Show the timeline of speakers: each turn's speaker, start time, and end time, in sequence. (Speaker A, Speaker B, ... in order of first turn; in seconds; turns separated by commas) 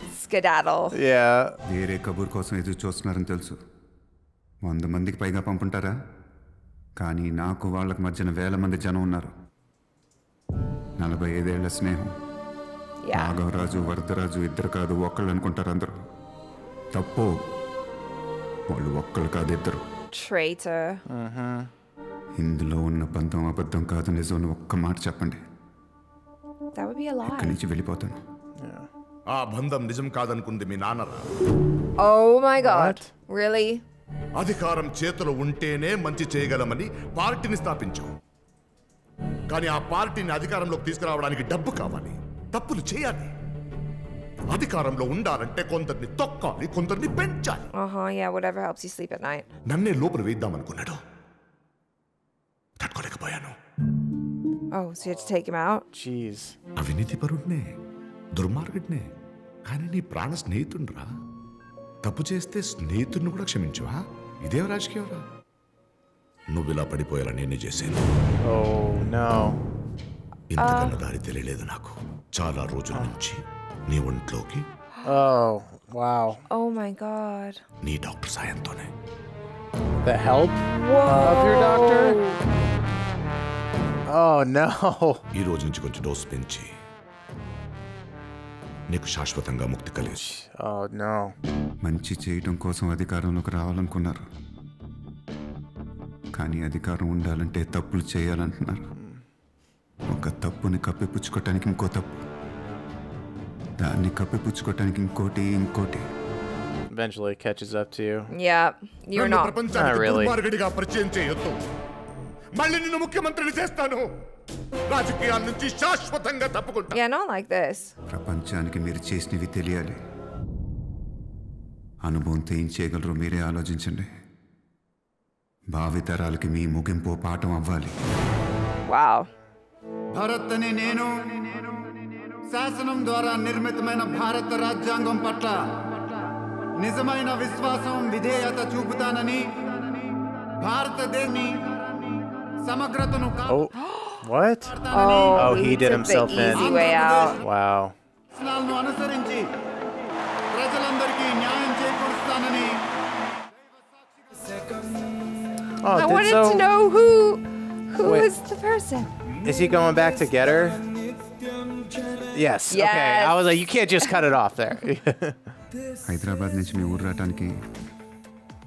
Speaker A: 0.1-0.9, Speaker B: 0.9-1.6, Speaker C: 1.7-3.6, Speaker C: 4.6-5.9, Speaker C: 7.0-9.3, Speaker C: 11.0-12.1, Speaker A: 13.0-13.3, Speaker C: 13.1-15.9, Speaker C: 16.9-17.4, Speaker C: 18.7-19.8, Speaker A: 20.1-21.0, Speaker B: 21.1-21.7, Speaker C: 22.4-25.4, Speaker A: 26.8-27.6, Speaker C: 27.2-28.2, Speaker B: 28.6-28.9, Speaker D: 29.3-31.2, Speaker A: 32.0-33.8, Speaker B: 32.6-33.1, Speaker D: 34.4-38.1, Speaker D: 39.5-43.3, Speaker D: 44.5-47.6, Speaker A: 47.7-49.5, Speaker D: 49.7-51.0, Speaker D: 52.8-53.5, Speaker A: 54.7-55.8, Speaker B: 55.9-56.6, Speaker D: 56.8-57.6, Speaker D: 58.3-59.0, Speaker D: 59.7-61.1, Speaker D: 62.0-65.2, Speaker D: 66.5-68.0, Speaker B: 68.4-69.6, Speaker D: 70.5-74.7, Speaker A: 70.6-71.0, Speaker B: 75.0-76.4, Speaker A: 76.5-77.6, Speaker D: 77.8-78.9, Speaker B: 80.0-80.6, Speaker A: 80.8-82.4, Speaker B: 81.2-82.2, Speaker B: 84.1-85.2, Speaker D: 85.3-86.7, Speaker D: 88.9-90.2, Speaker B: 90.2-91.3, Speaker C: 91.8-94.2, Speaker C: 96.3-98.8, Speaker B: 99.0-99.2, Speaker C: 100.1-102.2, Speaker C: 103.8-106.0, Speaker B: 106.9-108.3, Speaker A: 108.3-109.5, Speaker D: 109.2-111.5, Speaker B: 109.7-110.4, Speaker D: 112.6-114.0, Speaker D: 114.9-117.0, Speaker A: 116.9-117.9, Speaker C: 118.1-120.0, Speaker C: 122.0-124.1, Speaker C: 125.7-127.9, Speaker A: 128.8-129.3, Speaker C: 130.1-135.6, Speaker C: 136.8-140.1, Speaker C: 140.6-142.0, Speaker C: 142.6-143.6, Speaker B: 144.2-144.8, Speaker C: 144.7-145.6, Speaker A: 144.9-147.4, Speaker B: 145.3-146.8, Speaker C: 146.5-147.4, Speaker B: 147.4-147.9, Speaker C: 148.3-149.5, Speaker C: 150.5-152.8, Speaker B: 155.8-156.7, Speaker A: 155.9-159.1, Speaker B: 158.0-158.3, Speaker B: 159.4-160.8, Speaker B: 162.3-165.4, Speaker A: 162.7-164.1, Speaker C: 166.0-167.6